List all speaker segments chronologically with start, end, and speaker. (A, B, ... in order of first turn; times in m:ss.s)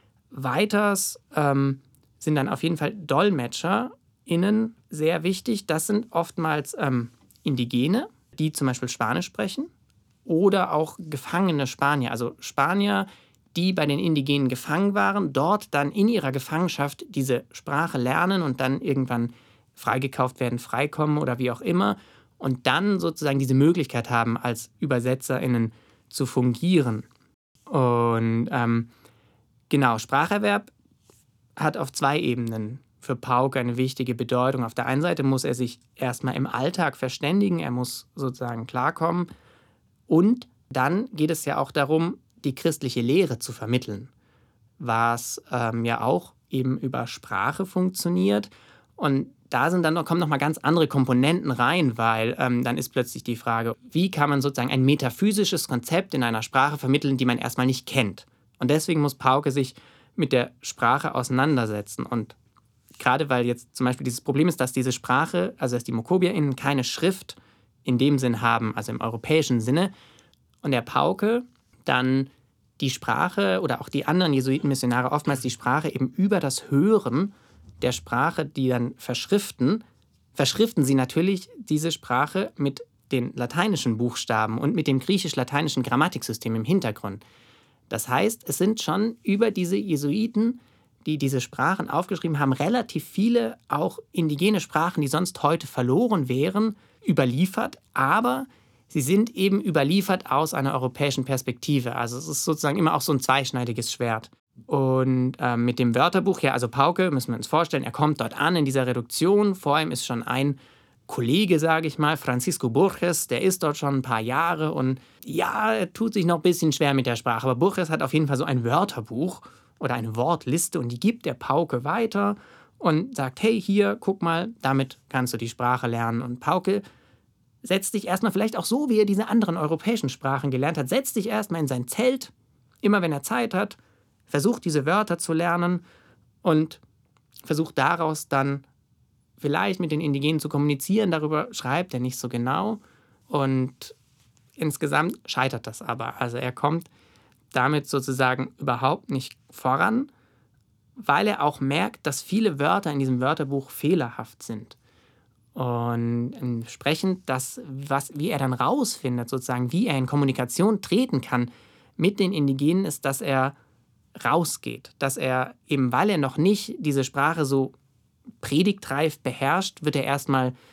0:00.3-0:09.7 A
0:10.3-0:27.0 A
0:27.7-0:28.9 A
0:29.7-0:30.7 A
0:31.6-0:39.3 A
0:40.1-0:44.1 A
0:44.8-1:02.4 A
1:03.0-1:09.9 A
1:10.6-1:19.8 A
1:20.4-1:27.2 A
1:27.9-2:06.8 A
2:07.6-2:13.8 A
2:14.3-2:15.8 A
2:16.4-2:16.8 A
2:17.4-2:18.6 A
2:19.4-2:24.0 A
2:24.6-2:26.9 A
2:27.5-2:30.1 A
2:31.0-2:34.8 A
2:35.6-2:43.6 A
2:44.2-2:47.8 A
2:48.4-2:50.6 A